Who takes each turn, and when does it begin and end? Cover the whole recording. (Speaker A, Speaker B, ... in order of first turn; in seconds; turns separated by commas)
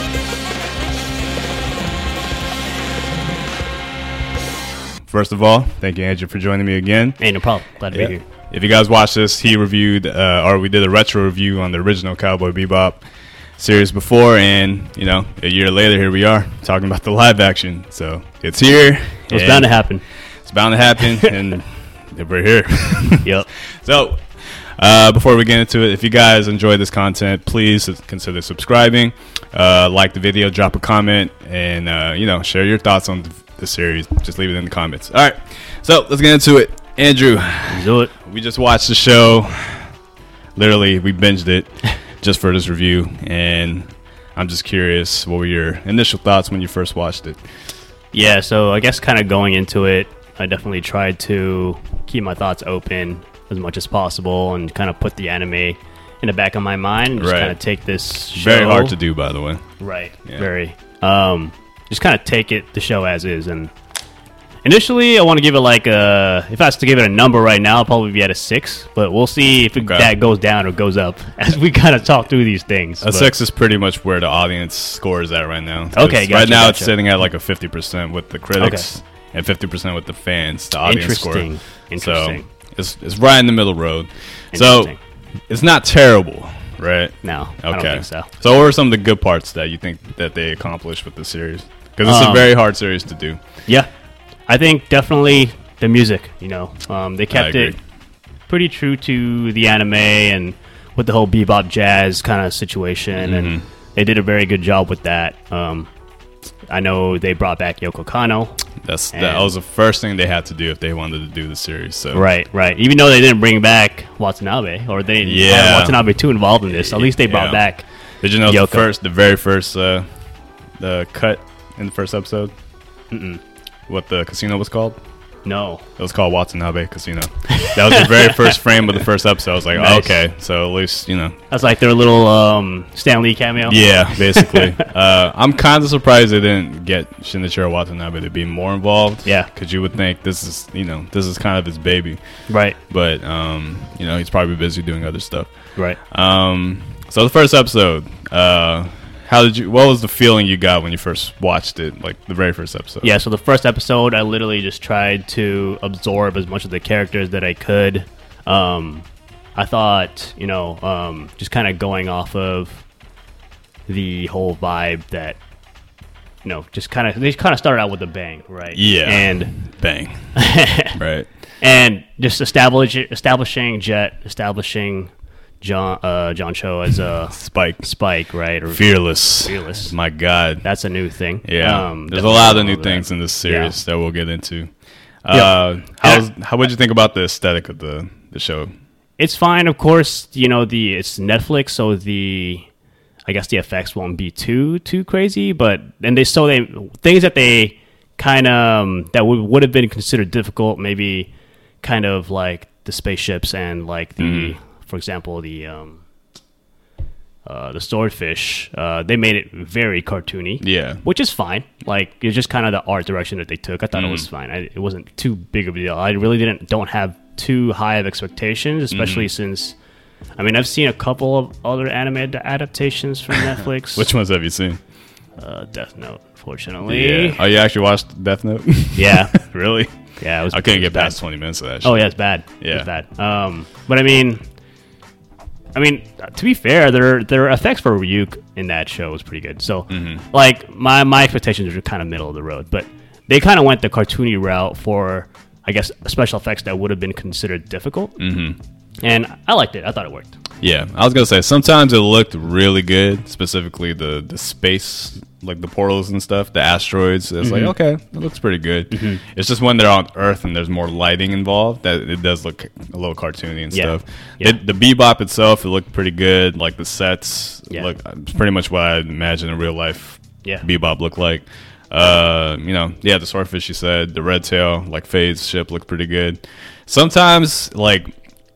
Speaker A: 5.1-7.2, Speaker B: 7.2-8.3, Speaker A: 7.9-13.0, Speaker A: 13.6-19.7, Speaker B: 19.3-20.0, Speaker A: 20.4-39.9, Speaker B: 37.7-38.1, Speaker A: 40.6-47.4, Speaker B: 48.1-59.0, Speaker A: 57.2-57.6, Speaker A: 58.3-59.6, Speaker B: 59.8-63.7, Speaker B: 64.7-73.3, Speaker A: 69.8-70.1, Speaker A: 73.0-84.9, Speaker B: 75.9-76.9, Speaker B: 78.6-78.9, Speaker B: 80.8-82.5, Speaker B: 84.5-85.0, Speaker A: 85.5-93.4, Speaker B: 87.2-88.3, Speaker B: 92.0-92.5, Speaker B: 94.5-97.8, Speaker A: 97.3-97.8, Speaker B: 98.5-105.9, Speaker A: 103.2-103.6, Speaker B: 106.7-108.6, Speaker A: 108.8-112.3, Speaker B: 109.1-109.5, Speaker B: 112.1-117.9, Speaker A: 115.2-116.0, Speaker A: 116.7-117.6, Speaker A: 118.2-120.1, Speaker B: 118.5-118.9, Speaker A: 120.8-122.5, Speaker B: 123.1-123.4, Speaker A: 123.9-125.0, Speaker B: 125.5-125.9, Speaker A: 126.0-131.4, Speaker B: 127.5-128.6, Speaker B: 129.7-130.2, Speaker B: 131.5-134.9, Speaker A: 133.6-142.2, Speaker B: 142.5-142.8, Speaker A: 142.8-145.5, Speaker A: 146.0-153.1, Speaker B: 153.0-162.8, Speaker B: 163.9-165.4, Speaker B: 166.4-169.6, Speaker A: 168.7-170.2, Speaker B: 170.3-171.0, Speaker A: 171.0-171.3, Speaker B: 171.6-179.9, Speaker A: 177.3-177.8, Speaker A: 178.7-180.7, Speaker B: 180.6-183.7, Speaker A: 181.4-184.7, Speaker A: 185.2-188.7, Speaker B: 185.3-186.2, Speaker B: 189.2-192.7, Speaker B: 193.3-201.3, Speaker B: 201.8-206.0, Speaker A: 204.2-204.6, Speaker B: 207.5-219.8, Speaker A: 210.6-211.0, Speaker A: 213.9-214.3, Speaker A: 218.9-219.3, Speaker B: 220.4-224.1, Speaker A: 223.5-224.8, Speaker B: 225.4-227.4, Speaker A: 226.9-229.9, Speaker B: 228.9-229.3, Speaker B: 230.2-231.2, Speaker A: 230.5-232.0, Speaker B: 231.8-234.4, Speaker A: 232.6-232.9, Speaker B: 235.8-248.2, Speaker A: 239.9-240.2, Speaker A: 248.2-248.6, Speaker B: 249.0-250.4, Speaker A: 250.6-278.1, Speaker B: 257.4-257.7, Speaker B: 258.9-259.2, Speaker B: 263.7-264.6